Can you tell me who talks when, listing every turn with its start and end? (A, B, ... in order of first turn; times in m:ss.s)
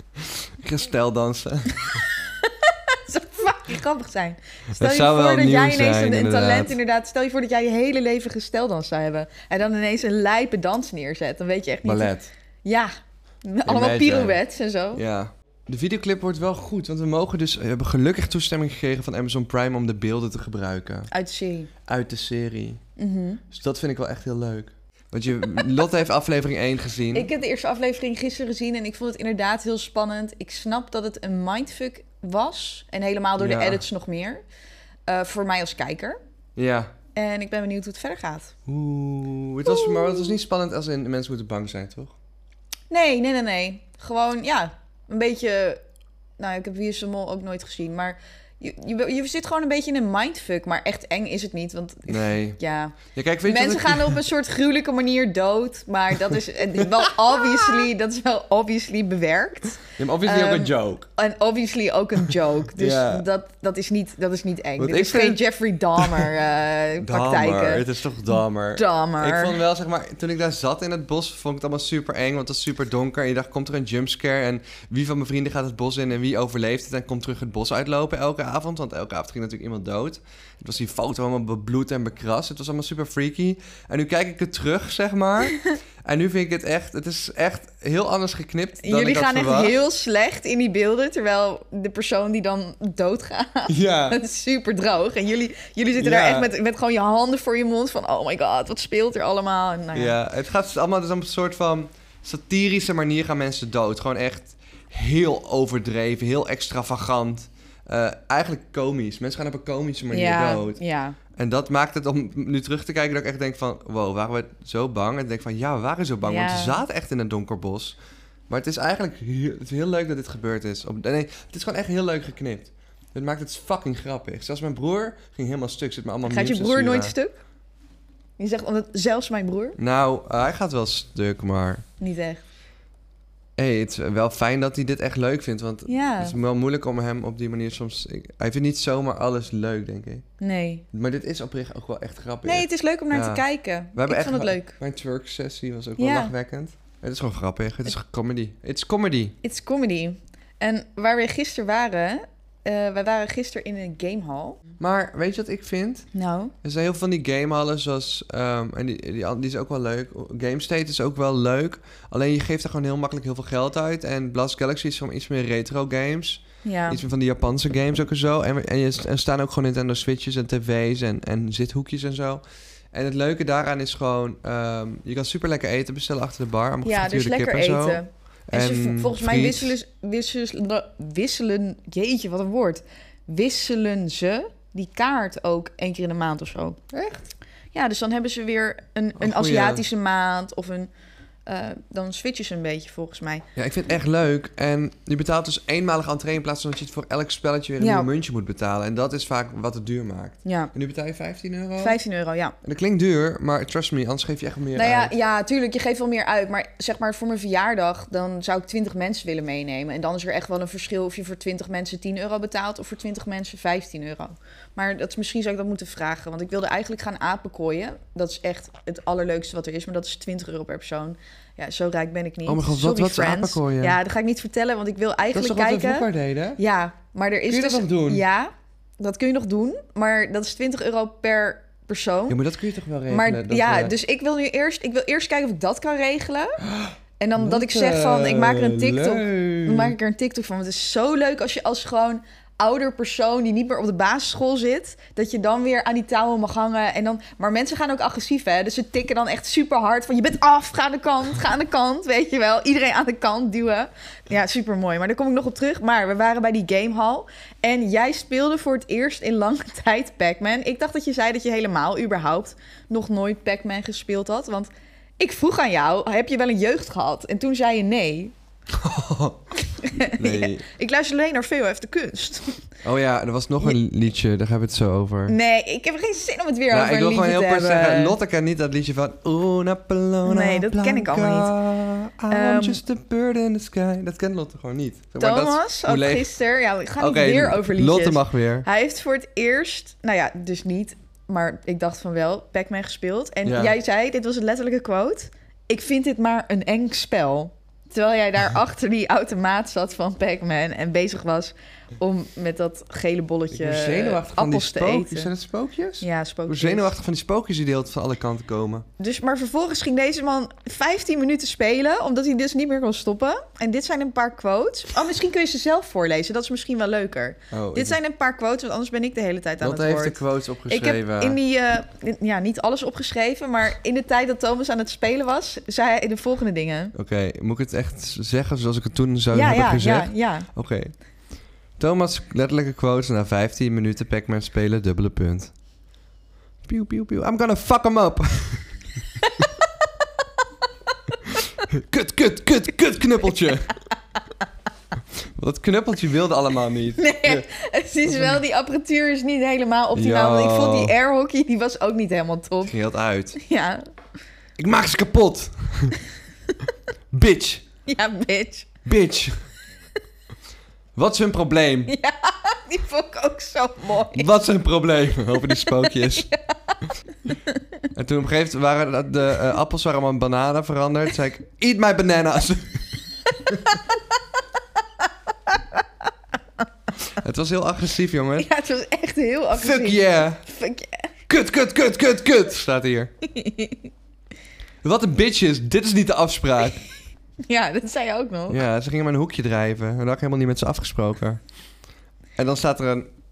0:00.2-0:02.0 A
0:01.8-0:12.9 B
0:04.7-0:06.8 A
0:11.8-0:12.3 A
0:13.4-0:15.0 B
0:13.6-0:14.4 A
0:14.9-0:21.1 A
0:21.1-0:21.7 B
0:21.8-0:22.8 A
0:23.0-0:23.4 B
0:23.5-0:27.3 A
0:27.1-0:34.4 B
0:33.4-0:33.8 A
0:35.1-0:36.2 B
0:36.6-0:36.9 A
0:37.1-0:38.5 B
0:38.7-0:42.1 A
0:39.6-0:40.3 B
0:42.9-0:45.8 B
0:46.4-1:09.6 B
0:52.1-0:54.2 A
0:56.8-0:57.8 A
0:59.8-1:01.1 A
1:02.8-1:03.2 A
1:04.8-1:05.4 A
1:05.9-1:06.3 A
1:07.0-1:29.8 A
1:28.8-1:40.2 B
1:33.7-1:34.2 A
1:36.0-1:36.5 A
1:39.9-1:50.8 A
1:50.1-1:51.2 B
1:51.3-1:58.0 A
1:56.2-1:56.8 B
1:58.5-2:07.1 A
2:06.2-2:07.4 B
2:08.4-2:09.8 B
2:09.8-2:11.8 A
2:12.0-2:12.4 B
2:13.6-2:20.2 A
2:15.9-2:16.4 B
2:20.4-2:20.8 B
2:20.9-2:23.4 A
2:22.4-2:24.8 B
2:23.9-2:29.4 A
2:26.0-2:26.3 B
2:29.4-2:34.6 B
2:34.8-2:36.1 A
2:36.1-2:36.5 B
2:36.6-2:59.7 A
2:46.6-2:47.0 B
2:56.8-3:06.8 B
3:06.9-3:07.2 A
3:07.7-3:10.9 B
3:09.2-3:09.8 A
3:11.4-3:13.4 B
3:13.6-3:22.0 A
3:17.8-3:18.1 B
3:20.4-3:20.7 B
3:21.8-3:22.5 B
3:22.6-3:25.1 A
3:24.7-3:52.4 B
3:42.4-3:44.0 A
3:45.3-3:46.6 A
3:47.5-3:48.2 A
3:52.3-3:53.9 A
3:53.1-3:56.6 B
3:56.6-4:00.0 A
3:57.2-4:28.3 B
4:28.7-4:29.5 A
4:29.7-4:32.6 B
4:30.2-4:30.6 A
4:32.8-4:35.4 A
4:35.3-4:38.2 B
4:36.7-4:46.4 A
4:40.2-4:41.5 B
4:42.3-4:42.8 B
4:45.2-5:05.3 B
4:47.0-4:48.6 A
4:53.4-4:53.8 A
5:03.5-5:08.8 A
5:06.0-5:06.9 B
5:09.0-5:26.9 B
5:17.5-5:18.0 A
5:19.6-5:21.4 A
5:26.9-5:30.9 A
5:29.3-5:30.5 B
5:31.8-5:35.5 A
5:36.6-5:38.7 A
5:39.2-5:39.7 B
5:41.3-5:43.8 A
5:45.2-5:47.4 A
5:47.0-5:52.7 B
5:48.0-5:48.4 A
5:49.9-5:50.9 A
5:52.6-5:53.4 A
5:53.3-5:53.8 B
5:54.6-5:56.0 A
5:57.1-5:57.6 A
5:57.8-5:58.7 B
5:58.8-5:59.4 A
6:01.0-6:01.9 A
6:01.9-6:04.3 B
6:04.1-6:06.3 A
6:05.5-6:07.6 B
6:07.9-6:12.9 A
6:13.4-6:13.7 A
6:13.4-6:14.2 B
6:17.1-6:18.5 A
6:18.4-6:21.1 B
6:19.5-6:20.4 A
6:21.3-6:23.1 A
6:23.2-6:23.9 B
6:24.8-6:26.8 A
6:27.4-6:28.6 B
6:28.5-6:31.4 A
6:32.4-6:33.1 A